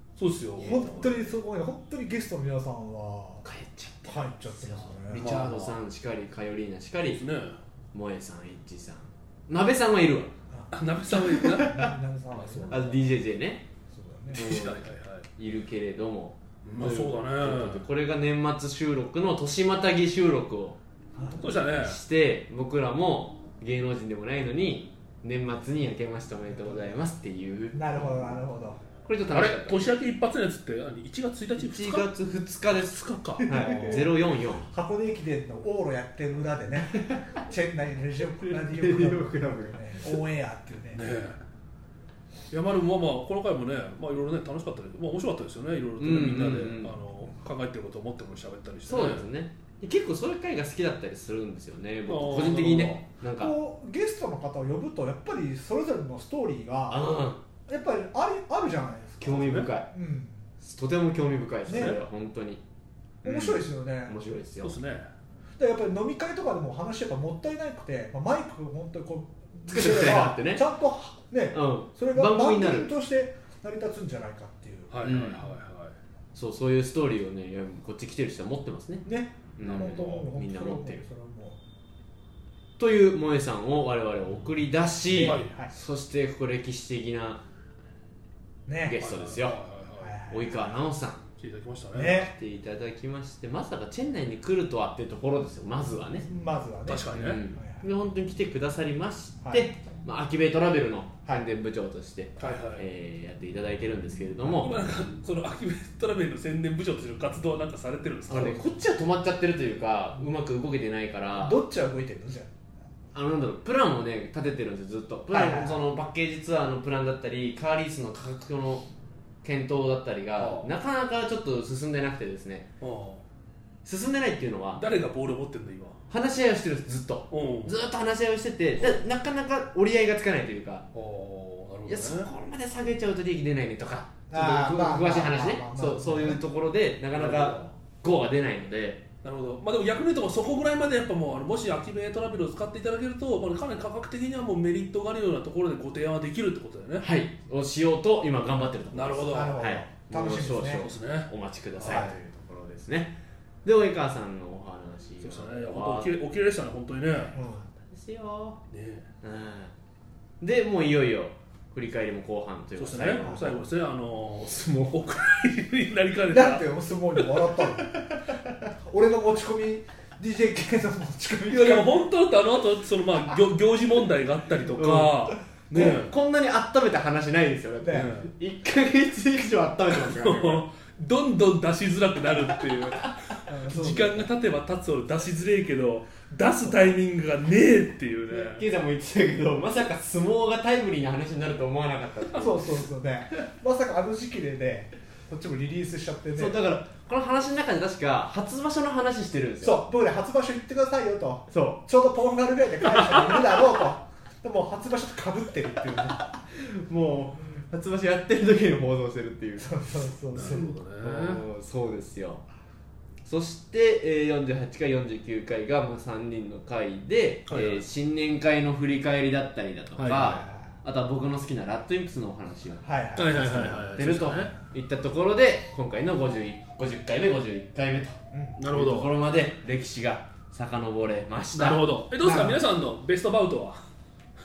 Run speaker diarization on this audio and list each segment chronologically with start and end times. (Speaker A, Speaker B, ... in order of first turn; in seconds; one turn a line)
Speaker A: 0.2-1.2
Speaker B: 0.6-3.4
Speaker C: 3.4-7.2
Speaker B: 4.1-5.4
Speaker A: 5.2-5.8
Speaker A: 7.1-7.6
Speaker C: 7.9-10.3
Speaker B: 10.5-13.1
Speaker A: 10.7-11.8
Speaker C: 11.4-11.8
Speaker A: 12.3-12.7
Speaker C: 12.7-13.7
Speaker B: 13.9-14.4
Speaker A: 14.3-15.3
Speaker C: 14.3-28.1
Speaker A: 16.6-17.8
Speaker B: 21.2-21.5
Speaker A: 21.4-22.0
Speaker B: 26.6-27.0
Speaker B: 27.7-28.8
Speaker C: 29.0-29.9
Speaker A: 29.3-32.1
Speaker C: 31.6-34.7
Speaker A: 32.7-34.1
Speaker B: 33.4-41.2
Speaker C: 36.9-37.3
Speaker C: 38.5-40.2
Speaker A: 40.9-41.4
Speaker A: 42.5-49.3
Speaker C: 46.0-47.0
Speaker C: 48.9-53.5
Speaker A: 52.1-53.0
Speaker B: 53.4-60.5
Speaker C: 56.9-57.4
Speaker C: 59.2-59.9
Speaker A: 59.3-59.7
Speaker C: 60.6-62.6
Speaker B: 61.7-62.0
Speaker C: 63.2-64.8
Speaker B: 63.2-64.2
Speaker A: 64.6-65.1
Speaker B: 65.6-75.1
Speaker C: 69.7-70.6
Speaker C: 71.5-72.9
Speaker A: 74.9-76.0
Speaker C: 75.0-75.4
Speaker C: 76.3-81.0
Speaker B: 79.0-81.6
Speaker A: 79.6-80.2
Speaker C: 82.8-87.4
Speaker B: 85.1-85.7
Speaker A: 85.2-85.5
Speaker B: 88.7-89.0
Speaker C: 88.9-89.6
Speaker A: 89.0-90.2
Speaker B: 90.0-90.7
Speaker C: 90.3-91.2
Speaker A: 91.4-92.2
Speaker B: 91.9-92.3
Speaker C: 92.1-96.3
Speaker B: 96.3-97.8
Speaker A: 96.9-97.4
Speaker C: 97.1-105.0
Speaker B: 99.4-99.7
Speaker A: 102.4-102.8
Speaker A: 104.6-108.6
Speaker C: 108.3-111.6
Speaker B: 111.3-112.5
Speaker C: 113.1-118.9
Speaker B: 115.3-115.8
Speaker C: 119.4-122.7
Speaker A: 120.4-120.7
Speaker A: 122.8-123.2
Speaker C: 123.8-124.8
Speaker A: 124.8-126.0
Speaker C: 126.1-130.9
Speaker A: 127.3-127.8
Speaker A: 130.9-132.3
Speaker C: 131.9-139.0
Speaker B: 134.3-136.4
Speaker A: 137.2-137.7
Speaker A: 139.2-147.1
Speaker C: 147.0-156.2
Speaker A: 148.9-149.6
Speaker B: 149.3-150.9
Speaker A: 150.7-152.1
Speaker B: 151.8-152.2
Speaker A: 155.2-157.3
Speaker C: 157.3-158.6
Speaker B: 157.3-157.7
Speaker A: 158.7-159.1
Speaker C: 159.2-159.7
Speaker C: 160.4-163.6
Speaker A: 162.8-166.7
Speaker B: 163.2-163.6
Speaker C: 164.4-165.0
Speaker B: 166.3-168.1
Speaker B: 168.7-172.0
Speaker A: 171.5-176.1
Speaker C: 174.8-180.7
Speaker A: 177.9-178.3
Speaker A: 179.9-188.7
Speaker B: 183.5-184.3
Speaker C: 188.3-192.8
Speaker B: 192.3-196.6
Speaker C: 196.4-199.9
Speaker B: 199.6-206.2
Speaker C: 201.5-201.8
Speaker C: 206.4-212.5
Speaker B: 209.6-210.8
Speaker A: 210.3-211.4
Speaker C: 213.2-231.9
Speaker A: 217.5-217.8
Speaker A: 220.0-220.4
Speaker B: 220.2-220.7
Speaker B: 222.8-224.0
Speaker A: 223.2-224.5
Speaker B: 228.3-228.6
Speaker A: 228.6-229.1
Speaker A: 231.5-233.8
Speaker B: 232.2-232.6